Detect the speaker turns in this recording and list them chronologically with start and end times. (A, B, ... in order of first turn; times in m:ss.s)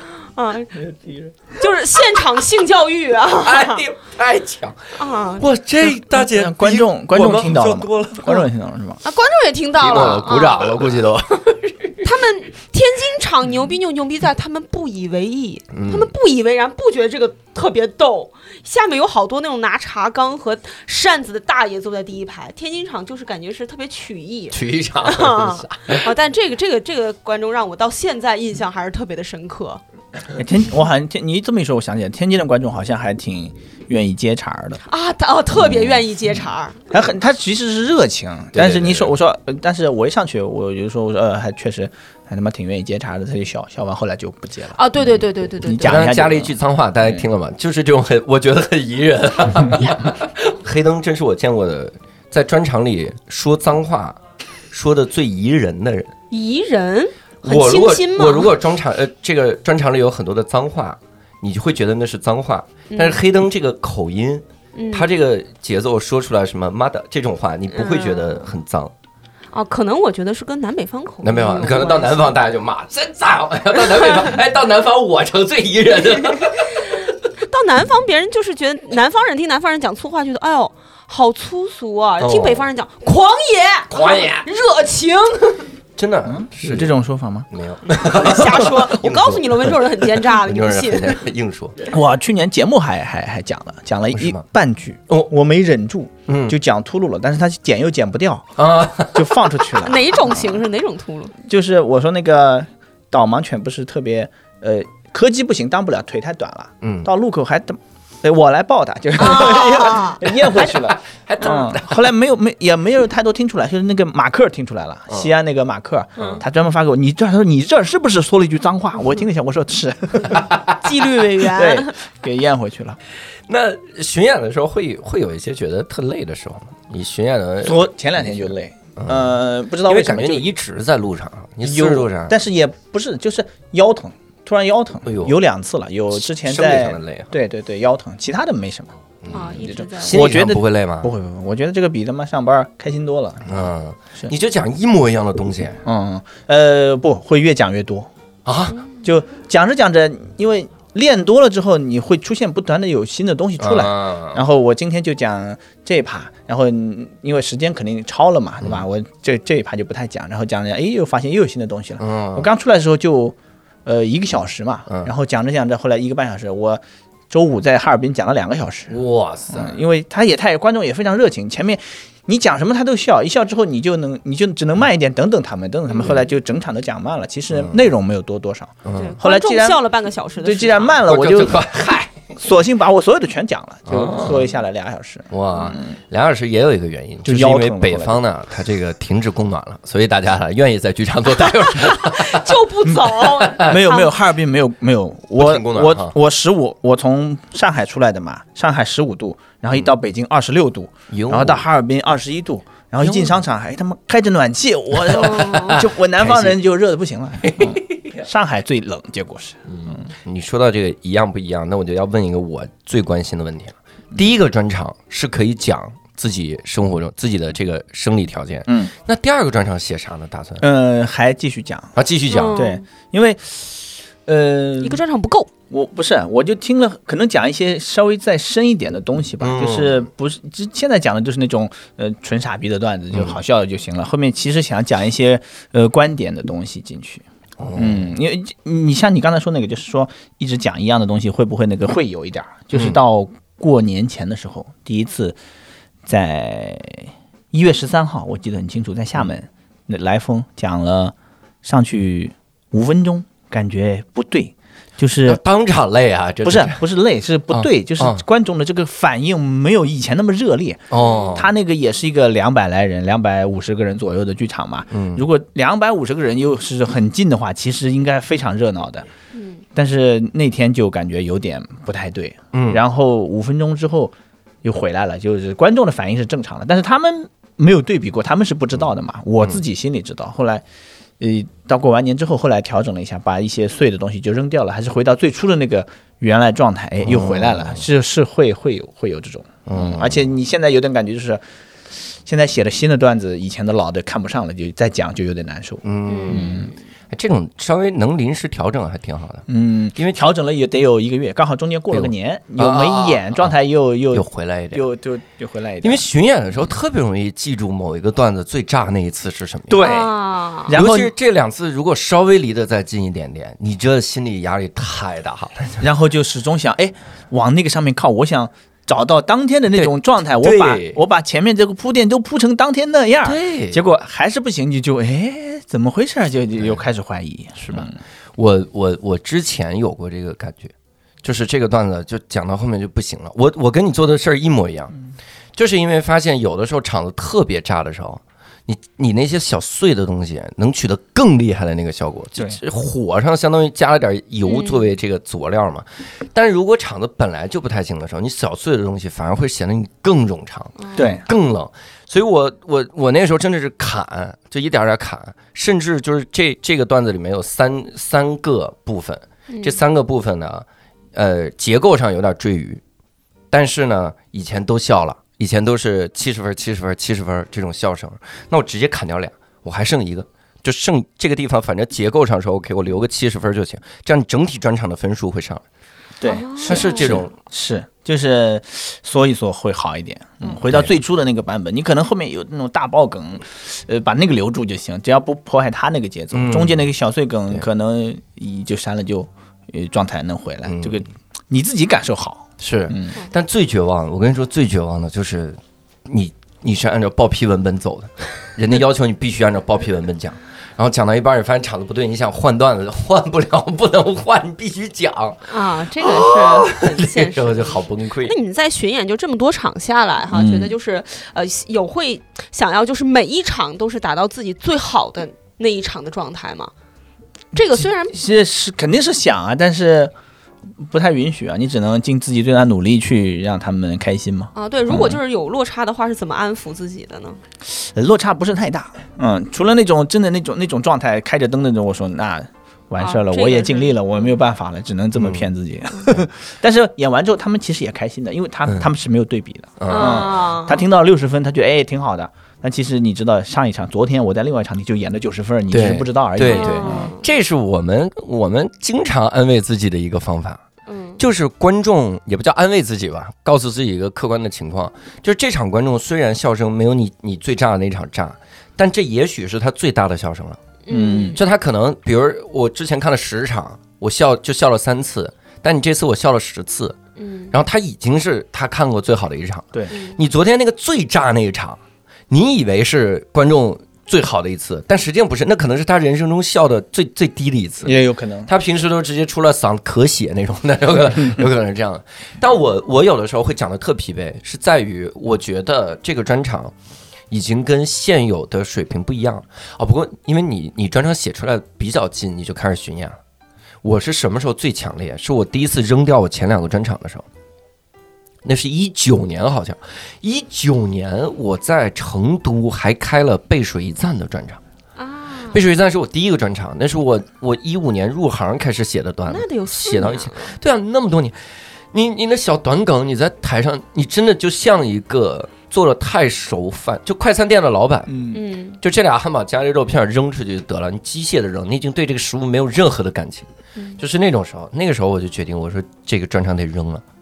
0:00.3-0:00.8 A
0:00.8-0:01.3 B
0:01.5-0:03.8 A
0:03.3-0:08.5 B
0:05.0-0:05.5 A
0:06.0-0:09.0 C
0:09.0-0:10.9 A
0:09.8-0:12.1 B
0:12.0-0:29.8 A
0:15.7-0:16.1 B
0:24.5-0:26.1 B
0:30.3-0:34.8 C
0:34.9-0:36.8 A
0:36.9-0:44.8 C
0:38.5-0:39.1 B
0:44.7-0:46.0 A
0:45.6-0:47.2 C
0:45.8-0:54.2 B
0:54.7-0:56.1 B
0:56.3-0:58.5 A
0:57.4-1:08.9 B
1:02.9-1:03.2 A
1:04.7-1:05.1 A
1:07.7-1:08.4 A
1:09.5-1:12.3 A
1:11.2-1:16.9 B
1:13.9-1:14.2 A
1:16.3-1:25.7 A
1:22.2-1:22.7 B
1:23.9-1:24.4 B
1:26.0-1:26.9 B
1:26.3-1:27.5 C
1:27.5-1:31.9 B
1:27.9-1:31.2 A
1:31.9-1:40.5 C
1:34.1-1:34.4 B
1:36.3-1:36.5 B
1:38.6-1:39.4 B
1:39.8-1:41.3 A
1:41.4-2:00.5 C
1:46.8-1:47.1 B
1:49.2-1:50.2 A
1:50.4-1:52.1 B
1:56.2-1:56.4 B
2:00.3-2:00.8 B
2:00.8-2:01.9 A
2:01.5-2:03.0 C
2:03.5-2:12.3 B
2:07.6-2:10.5 C
2:11.6-2:19.0 C
2:15.0-2:15.4 B
2:16.2-2:17.3 B
2:19.2-2:21.1 B
2:19.3-2:20.3 A
2:19.6-2:24.3 C
2:23.4-2:25.8 B
2:25.8-2:28.1 C
2:28.4-2:28.8 B
2:29.0-2:49.0 C
2:33.6-2:34.4 B
2:42.0-2:42.5 B
2:48.9-2:49.8 B
2:49.5-2:59.8 C
2:57.5-2:57.8 B
2:58.8-2:59.2 B
2:58.9-3:01.0 A
3:00.4-3:01.6 C
3:01.0-3:02.1 B
3:02.4-3:05.9 C
3:03.9-3:04.5 B
3:05.3-3:12.5 B
3:07.2-3:08.2 C
3:11.5-3:14.1 A
3:13.1-3:13.7 B
3:13.6-3:30.1 C
3:15.4-3:16.1 B
3:21.1-3:21.6 B
3:23.0-3:23.4 B
3:25.0-3:26.6 B
3:25.2-3:25.7 A
3:27.4-3:27.8 B
3:29.7-3:40.6 B
3:38.7-3:38.9 C
3:40.6-3:41.9 C
3:41.9-3:42.6 B
3:42.3-3:42.8 A
3:42.5-3:45.0 C
3:44.8-3:45.5 A
3:45.7-3:57.2 C
3:49.4-3:50.1 B
3:57.6-3:58.1 B
3:57.7-4:05.4 C
4:02.7-4:03.0 B
4:06.0-4:15.4 C
4:15.2-4:16.8 B
4:16.4-4:29.1 C
4:17.5-4:18.2 B
4:20.9-4:21.5 B
4:20.9-4:21.4 A
4:24.9-4:25.2 B
4:29.3-4:29.6 A
4:29.7-4:40.6 C
4:32.5-4:32.8 B
4:41.2-4:51.4 C
4:47.0-4:47.8 B
4:49.6-4:50.2 B
4:52.2-4:56.7 C
4:55.8-5:00.2 B
4:56.0-4:56.7 A
4:59.5-5:06.0 C
5:01.9-5:03.5 B
5:04.1-5:04.8 B
5:05.8-5:09.9 B
5:09.7-5:10.1 C
5:09.8-5:10.7 A
5:10.6-5:11.1 C
5:10.7-5:15.8 B
5:15.8-5:28.0 C
5:19.7-5:21.0 B
5:23.2-5:23.8 B
5:27.6-5:34.9 B
5:35.6-6:02.8 B
5:44.4-5:44.9 A
5:50.8-5:51.1 A
5:50.9-5:51.2 C
5:59.5-5:59.8 A
6:03.5-6:15.6 B
6:16.2-6:33.2 C
6:16.2-6:17.2 A
6:16.6-6:17.3 B
6:26.3-6:26.8 B
6:30.6-6:31.0 B
6:32.6-6:48.3 B
6:45.5-6:56.7 A
6:50.3-6:50.7 C
6:57.5-6:58.2 A
6:57.8-7:00.1 C
7:00.8-7:05.2 C
7:04.5-7:07.4 A
7:07.7-7:27.1 C
7:13.0-7:14.3 A
7:15.2-7:15.5 B
7:19.8-7:20.3 B
7:19.9-7:20.8 A
7:25.7-7:30.6 B
7:26.4-7:27.2 A
7:30.9-7:31.2 A
7:31.2-7:40.6 B
7:40.8-7:41.4 A
7:40.9-7:41.4 C
7:41.3-7:47.0 B
7:47.2-7:47.5 A
7:47.5-8:06.7 B
7:49.9-7:50.2 A
7:57.8-7:58.5 C
8:07.3-8:13.2 B
8:13.8-8:17.2 B
8:18.4-8:24.6 B
8:25.0-8:25.6 A
8:25.5-8:38.1 B
8:29.3-8:30.5 A
8:38.1-8:38.4 C
8:38.3-8:38.8 A
8:38.8-8:47.0 B